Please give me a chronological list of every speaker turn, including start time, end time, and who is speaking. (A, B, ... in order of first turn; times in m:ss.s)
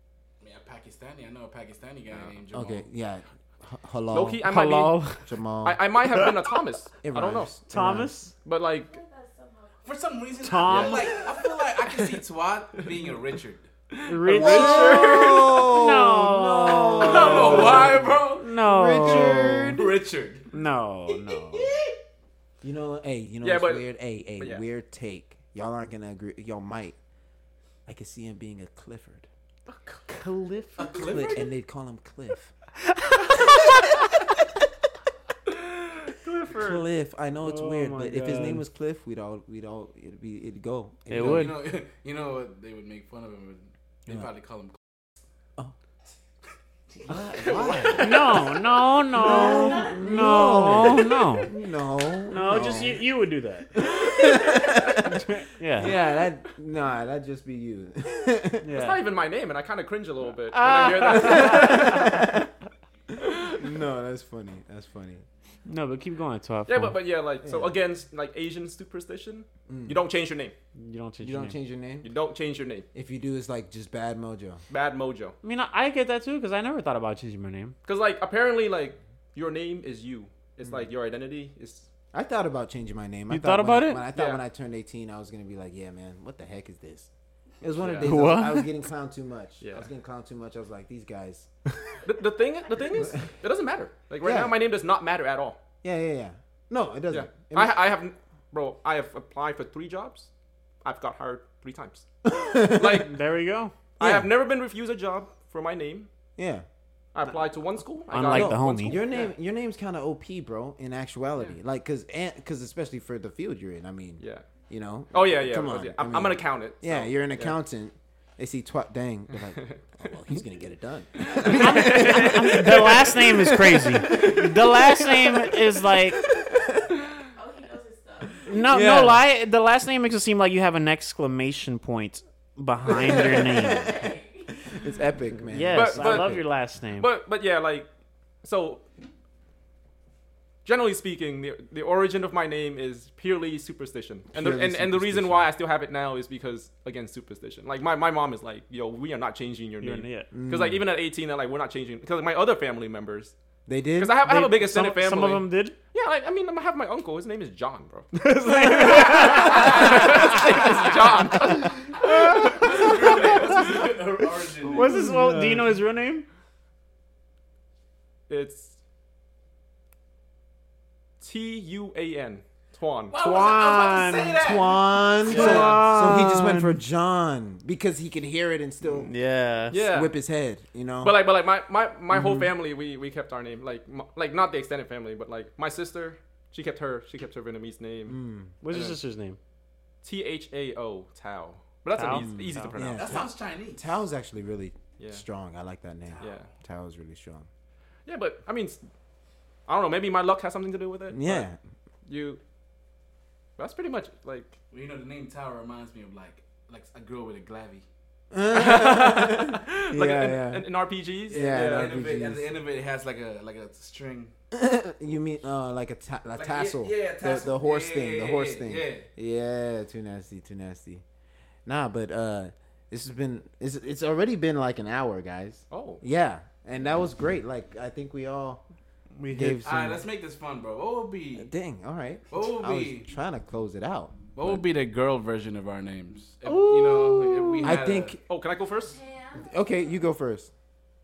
0:00.4-0:02.9 A
0:02.5-0:04.4 B
0:04.1-0:05.0 C
0:04.4-0:05.3 D
0:05.2-0:05.8 B
0:05.6-0:07.6 C
0:07.0-0:08.1 B
0:07.7-0:08.3 D
0:08.4-0:08.9 C
0:08.7-0:10.5 E
0:09.8-0:13.7 A
0:10.4-0:11.1 D
0:10.7-0:11.0 B
0:11.2-0:11.5 E
0:13.9-0:15.7 C
0:14.1-0:19.8 D
0:14.3-0:19.9 B
0:17.0-0:18.5 A
0:19.0-0:20.5 A
0:20.5-0:21.7 D
0:21.3-0:21.9 A
0:22.6-0:27.0 B
0:23.4-0:23.8 C
0:27.9-0:29.3 B
0:29.7-0:30.0 C
0:30.1-0:31.2 D
0:30.8-0:31.4 A
0:31.0-0:32.5 B
0:33.0-0:34.1 D
0:36.2-0:36.9 D
0:36.6-0:41.5 B
0:37.4-0:38.6 D
0:41.1-0:41.6 D
0:41.2-0:44.8 A
0:47.1-0:48.2 B
0:47.1-0:48.1 A
0:47.4-0:48.4 C
0:47.9-0:51.5 D
0:49.1-0:53.0 B
0:49.3-0:49.6 C
0:52.3-0:53.7 D
0:53.8-0:58.7 B
0:54.2-0:54.8 C
0:54.9-0:56.0 D
0:58.6-0:59.0 D
0:58.7-1:02.2 C
1:00.5-1:02.3 D
1:01.0-1:02.5 B
1:03.2-1:03.6 C
1:03.4-1:05.2 B
1:05.7-1:07.0 D
1:06.7-1:10.5 C
1:07.4-1:07.8 B
1:09.7-1:10.0 B
1:10.8-1:11.6 D
1:11.2-1:12.1 B
1:12.0-1:12.9 C
1:12.9-1:14.6 B
1:14.7-1:15.4 C
1:15.4-1:17.8 D
1:17.8-1:21.9 C
1:22.1-1:27.1 B
1:23.3-1:24.1 D
1:24.2-1:24.4 C
1:27.6-1:31.5 B
1:27.8-1:28.1 C
1:28.0-1:28.7 D
1:29.6-1:29.9 C
1:32.0-1:35.6 C
1:33.0-1:33.3 B
1:34.2-1:34.5 B
1:35.8-1:37.9 B
1:37.1-1:40.3 C
1:40.8-1:42.1 C
1:42.2-1:43.1 B
1:42.8-1:43.1 C
1:43.0-1:43.7 D
1:44.0-1:46.1 C
1:44.0-1:44.3 B
1:46.4-1:46.6 B
1:47.2-1:49.3 C
1:48.1-1:49.0 D
1:48.3-2:02.9 B
1:54.2-1:54.5 C
1:55.1-1:57.6 C
1:59.4-1:59.8 C
2:01.3-2:05.5 C
2:01.4-2:06.2 D
2:07.4-2:08.7 E
2:08.5-2:09.2 B
2:08.5-2:14.0 D
2:13.1-2:14.8 E
2:13.1-2:13.9 B
2:14.6-2:16.4 B
2:15.5-2:17.1 D
2:15.7-2:16.4 C
2:17.0-2:17.9 C
2:18.4-2:18.8 C
2:20.6-2:33.3 C
2:24.3-2:25.5 B
2:29.8-2:30.3 D
2:30.3-2:30.8 B
2:33.7-2:34.2 B
2:34.0-2:43.6 C
2:34.2-2:35.8 D
2:38.2-2:41.0 D
2:42.0-2:44.0 D
2:42.0-2:45.1 A
2:44.6-2:46.3 D
2:44.9-2:45.6 B
2:48.3-2:48.8 C
2:51.2-2:53.2 C
2:53.1-2:55.7 A
2:53.2-2:54.5 D
2:54.4-2:59.1 B
2:55.3-2:56.8 D
2:55.3-2:55.9 C
2:58.8-2:59.8 D
2:59.7-3:00.1 C
2:59.9-3:01.2 B
3:01.0-3:08.2 C
3:02.1-3:02.5 B
3:08.1-3:08.6 B
3:08.6-3:09.4 D
3:08.7-3:09.0 C
3:10.0-3:13.1 C
3:12.0-3:12.8 D
3:12.2-3:17.5 B
3:12.8-3:13.8 A
3:16.2-3:16.5 C
3:18.1-3:18.8 C
3:19.7-3:21.5 C
3:21.1-3:21.6 B
3:22.1-3:22.4 C
3:23.6-3:24.6 C
3:24.7-3:27.8 A
3:28.3-3:30.7 B
3:28.5-3:31.9 C
3:31.3-3:32.5 B
3:31.3-3:34.3 A
3:34.5-3:41.0 B
3:36.4-3:39.1 A
3:41.7-3:48.6 B
3:45.7-3:46.0 C
3:49.2-3:49.8 D
3:49.3-3:50.0 B
3:49.6-3:51.5 A
3:51.4-3:54.6 B
3:52.3-3:53.1 A
3:54.4-3:58.2 A
3:56.5-3:57.8 D
3:57.6-3:58.2 B
3:58.3-3:59.0 C
3:58.8-3:59.6 E
3:59.4-4:00.5 B